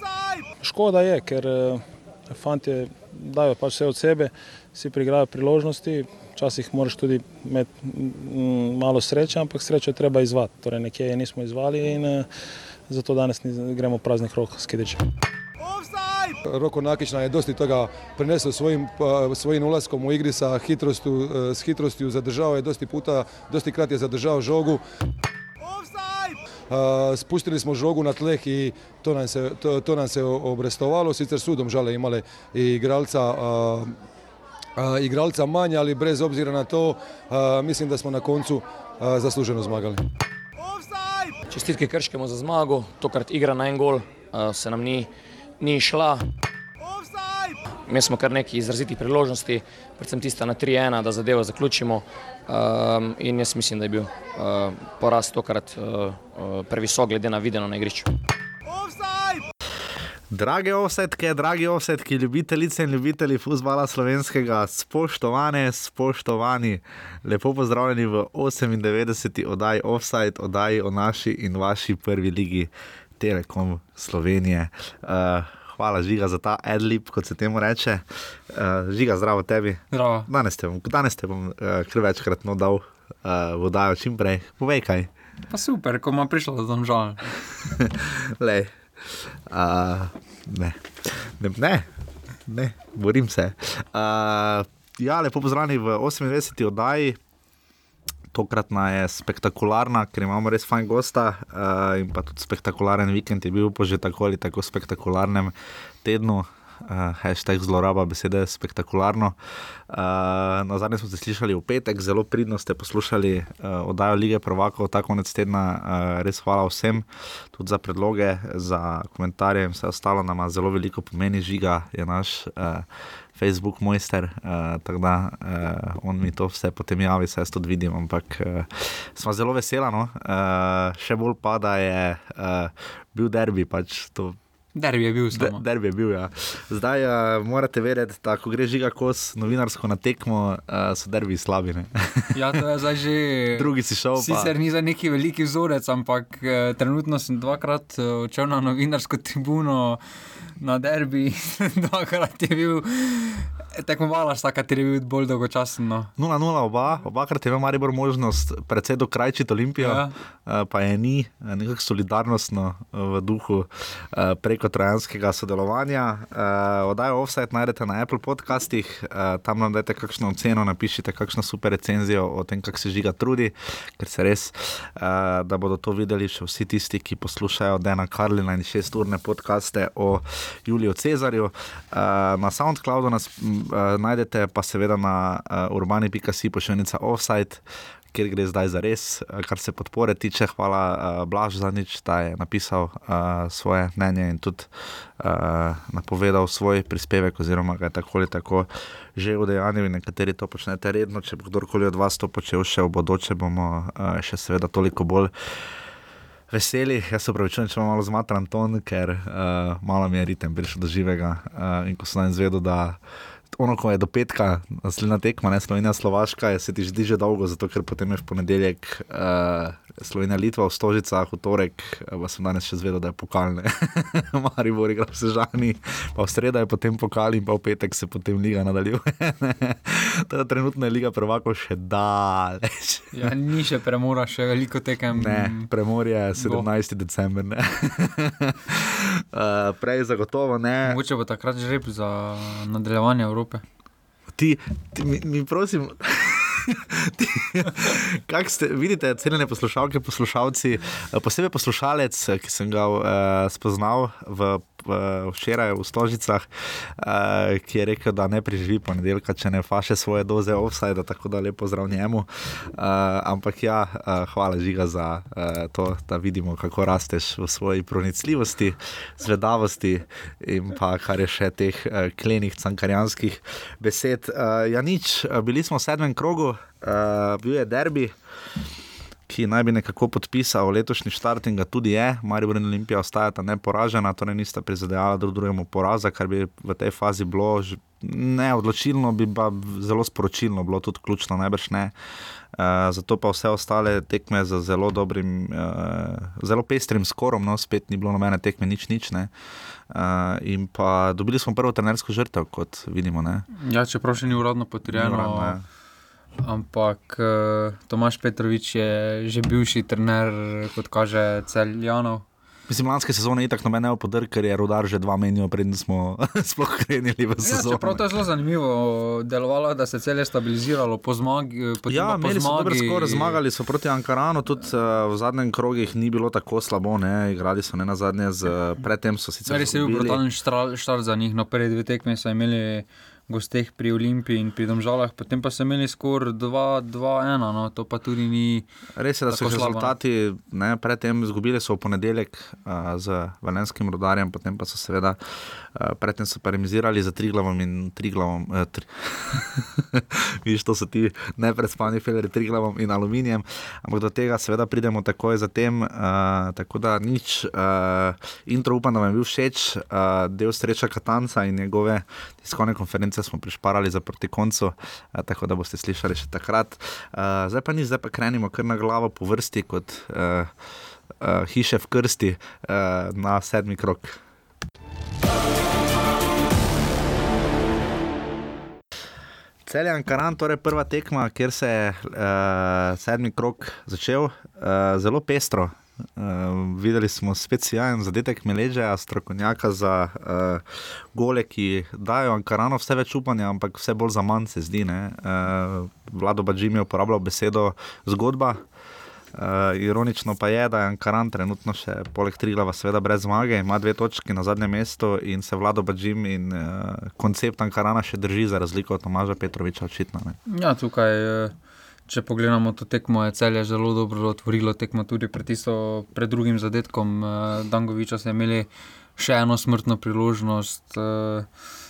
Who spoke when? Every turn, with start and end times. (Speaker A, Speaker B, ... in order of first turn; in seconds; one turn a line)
Speaker A: 0.6-12.3
Speaker A: 12.9-15.0
Speaker B: 16.4-24.8
Speaker B: 26.7-33.9
Speaker B: 34.8-40.0
Speaker C: 41.5-46.2
Speaker C: 47.9-58.1
Speaker D: 60.3-85.1
Speaker E: 79.9-80.3
Speaker E: 85.5-87.3
Speaker D: 87.8-91.9
Speaker D: 92.5-97.2
Speaker D: 98.3-109.3
Speaker D: 109.9-134.4
Speaker E: 134.7-135.6
Speaker D: 135.3-142.4
Speaker E: 142.3-150.0
Speaker D: 143.5-144.5
Speaker E: 150.6-156.1
Speaker D: 156.2-205.3
Speaker E: 159.8-160.1
Speaker D: 206.5-213.0
Speaker D: 213.5-233.3
Speaker E: 233.1-235.7
Speaker D: 235.1-241.0
Speaker E: 236.4-236.7
Speaker E: 240.8-243.6
Speaker D: 244.3-278.1
Speaker D: 279.3-291.9
Speaker D: 292.5-299.3
Speaker D: 299.9-303.4
Speaker E: 303.5-305.6
Speaker D: 304.9-305.6
Speaker E: 306.4-312.2
Speaker D: 312.7-318.0
Speaker E: 317.4-323.4
Speaker D: 321.9-330.2
Speaker E: 329.5-338.7
Speaker D: 339.0-370.5
Speaker E: 339.3-339.9
Speaker D: 371.2-374.2
Speaker D: 379.6-398.6
Speaker D: 399.3-410.4
Speaker E: 410.5-411.5
Speaker E: 412.1-421.5